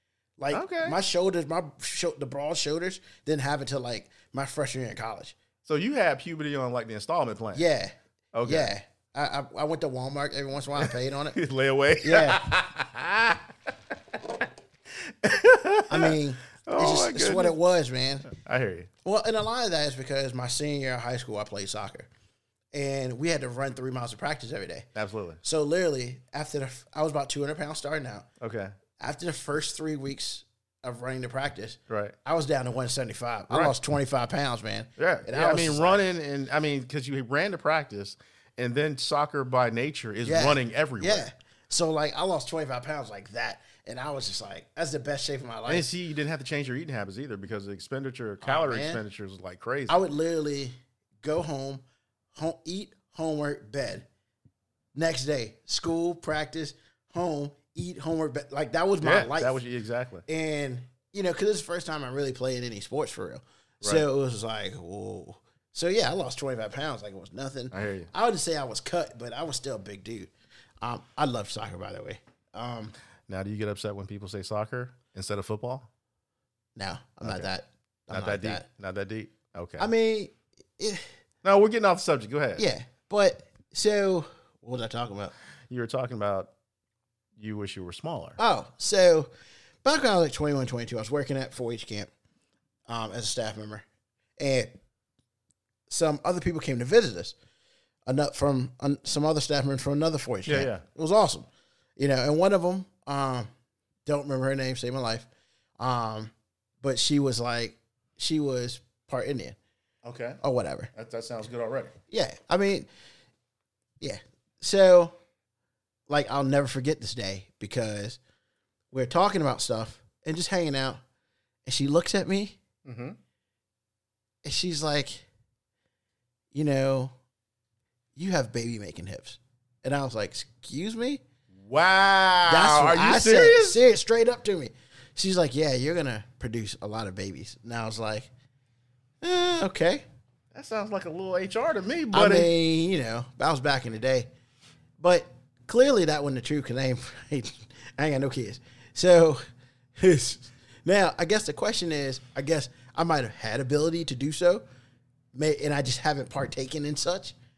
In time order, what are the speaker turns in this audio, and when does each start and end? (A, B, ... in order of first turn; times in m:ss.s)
0:00.4-0:05.3 A
0:00.5-0:01.0 B
0:05.6-0:07.6 B
0:07.5-0:07.9 A
0:08.3-0:08.7 B
0:08.4-0:11.4 A
0:10.8-0:13.5 B
0:12.0-0:12.4 A
0:14.9-0:17.6 B
0:15.9-0:18.3 A
0:18.2-0:18.9 B
0:19.0-0:22.1 A
0:22.7-0:24.9 A
0:24.9-0:25.4 B
0:25.4-0:28.3 A
0:28.4-0:28.8 B
0:29.0-0:36.0 A
0:31.9-0:32.2 B
0:35.0-0:41.3 B
0:40.2-0:45.9 A
0:45.7-0:50.0 B
0:48.4-0:49.0 A
0:49.9-0:51.8 A
0:52.3-0:54.0 A
0:54.9-0:59.6 A
0:59.0-1:00.2 B
1:00.3-1:12.9 A
1:07.7-1:08.1 B
1:13.3-1:15.9 B
1:16.8-1:18.6 A
1:17.2-1:17.5 B
1:18.1-1:19.9 B
1:19.8-1:21.1 A
1:21.4-1:22.6 B
1:22.6-1:25.3 A
1:25.7-1:26.5 B
1:27.4-1:28.4 B
1:28.4-1:29.3 A
1:29.8-1:32.1 A
1:32.9-1:33.8 A
1:34.4-1:34.7 A
1:35.9-1:37.3 A
1:38.0-1:43.5 A
1:40.4-1:40.8 B
1:44.0-1:45.3 A
1:45.8-1:49.6 A
1:50.0-1:50.4 B
1:50.4-1:50.9 A
1:50.9-1:51.9 B
1:52.1-1:52.9 A
1:54.0-1:55.2 A
1:56.1-1:58.2 A
1:58.9-2:01.0 A
2:01.6-2:02.6 A
2:02.8-2:03.2 B
2:04.4-2:05.2 A
2:06.5-2:07.1 A
2:08.2-2:11.2 A
2:11.5-2:13.8 B
2:12.5-2:18.3 A
2:19.2-2:20.0 A
2:20.5-2:22.5 B
2:22.1-2:24.3 A
2:25.0-2:29.4 A
2:30.0-2:34.6 A
2:35.3-2:37.3 A